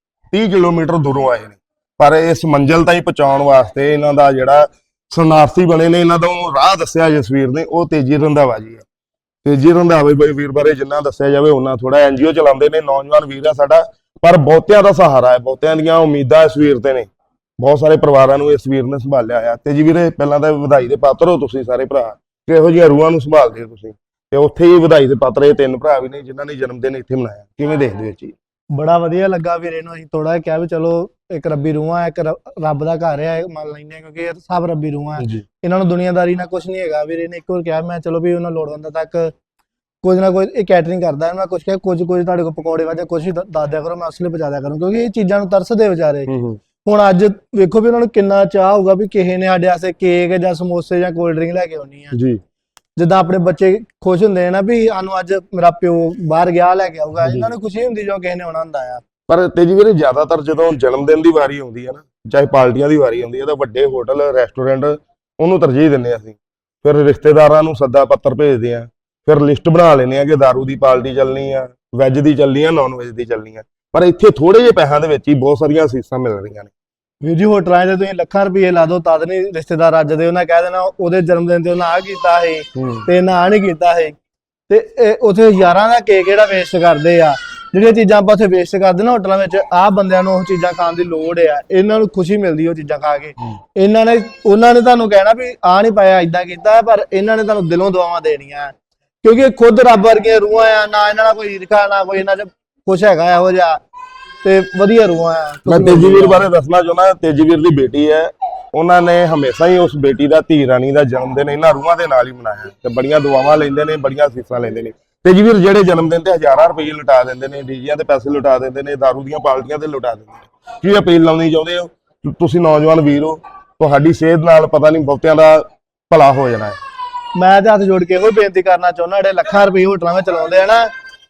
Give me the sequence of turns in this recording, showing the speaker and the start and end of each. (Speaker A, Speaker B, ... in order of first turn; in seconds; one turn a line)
Speaker A: 0.3-8.8
Speaker A: 9.4-28.3
Speaker B: 28.7-39.3
Speaker A: 35.2-35.5
Speaker B: 40.0-46.3
Speaker A: 46.3-46.6
Speaker B: 46.8-52.2
Speaker A: 52.1-52.4
Speaker B: 53.0-59.0
Speaker A: 57.2-57.5
Speaker A: 59.3-76.7
Speaker B: 77.2-84.2
Speaker A: 82.8-83.1
Speaker B: 84.7-98.7
Speaker B: 99.2-103.8
Speaker B: 104.4-106.5
Speaker A: 105.7-126.8
Speaker B: 127.3-130.9